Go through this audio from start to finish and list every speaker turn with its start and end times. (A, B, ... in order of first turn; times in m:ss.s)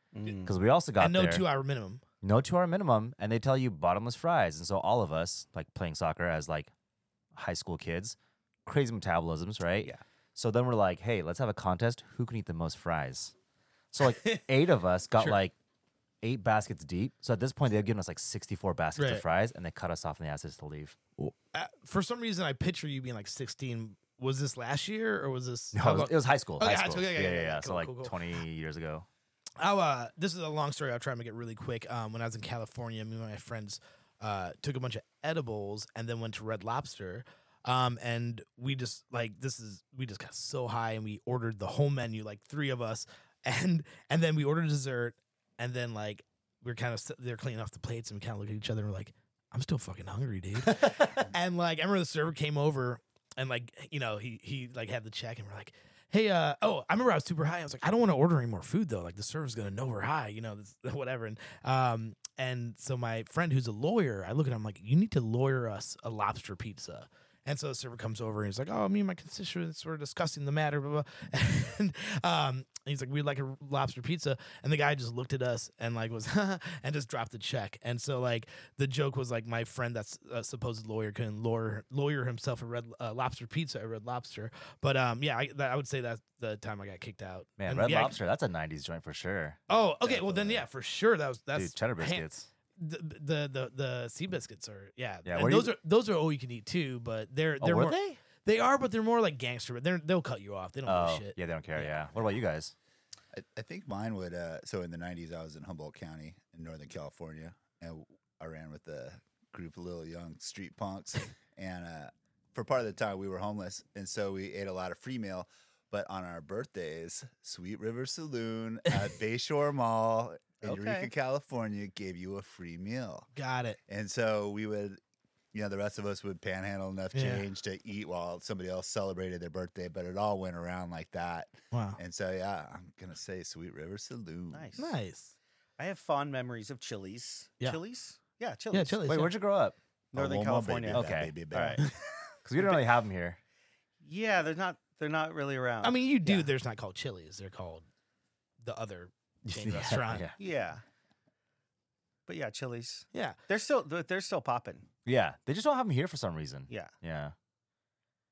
0:00.1-0:00.5 A
0:00.4-0:01.4 B
0:01.0-0:02.0 C
0:02.2-0:06.7 B
0:07.3-0:13.4 B
0:13.9-0:15.5 B
0:16.2-0:21.0 B
0:19.0-0:19.2 C
0:21.2-0:28.1 C
0:25.7-0:29.1 B
0:29.6-1:28.2 C
0:50.7-0:51.1 B
1:27.6-1:30.6 B
1:29.7-1:41.9 C
1:31.5-1:32.5 B
1:35.2-1:35.7 B
1:37.6-1:38.2 B
1:40.9-1:42.7 B
1:43.3-2:03.3 D
2:00.6-2:01.1 A
2:03.4-2:03.8 C
2:03.9-2:05.0 D
2:05.5-2:14.7 D
2:07.1-2:07.4 C
2:11.7-2:12.0 C
2:14.5-2:15.0 A
2:14.8-2:15.3 C
2:15.8-2:19.0 A
2:18.7-2:19.3 C
2:19.1-2:19.8 B
2:20.1-2:21.8 A
2:20.1-2:21.9 D
2:20.9-2:21.3 B
2:22.4-2:23.4 B
2:22.6-2:22.8 A
2:24.0-2:26.5 A
2:25.8-2:27.9 C
2:28.6-2:30.3 C
2:29.4-2:30.4 B
2:30.4-2:30.8 A
2:32.3-2:34.9 A
2:35.0-2:37.4 B